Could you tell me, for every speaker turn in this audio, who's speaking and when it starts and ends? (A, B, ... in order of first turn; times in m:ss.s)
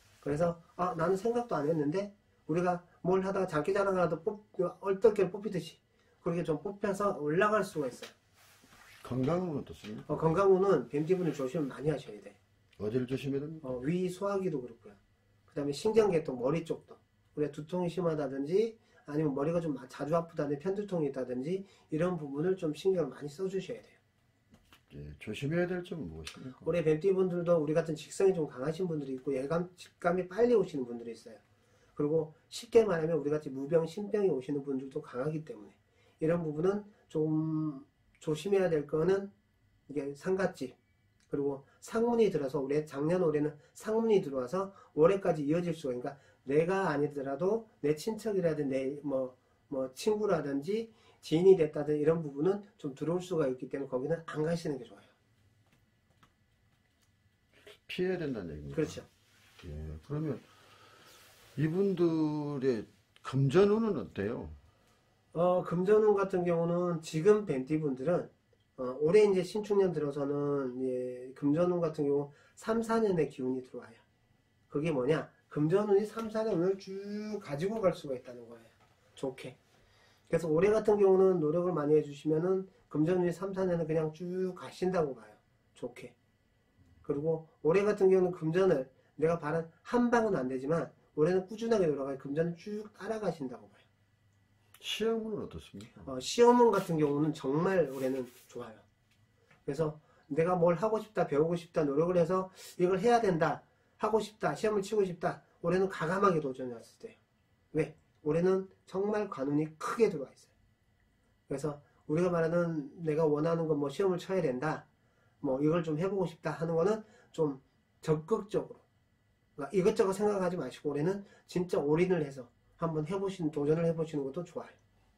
0:00.2-0:08.1 A
0:09.0-0:10.2 B
0:10.1-0:12.4 A
0:12.8-0:13.7 B
0:13.6-0:15.0 A
0:15.5-0:24.0 A
0:24.9-0:26.7 B
0:26.6-0:31.4 A
0:32.0-0:39.3 A
0:39.9-0:40.8 A
0:41.3-0:55.1 A
0:57.8-0:59.0 B
0:58.7-0:59.0 A
0:59.6-1:00.4 B
1:01.6-1:04.6 B
1:05.3-1:14.0 A
1:14.7-1:19.6 A
1:20.3-1:26.1 A
1:27.0-1:33.8 A
1:34.8-1:36.1 B
1:36.0-1:38.8 A
1:39.6-1:47.2 A
1:47.7-1:50.5 A
1:51.5-1:54.8 A
1:55.4-1:58.8 A
1:59.6-2:04.8 A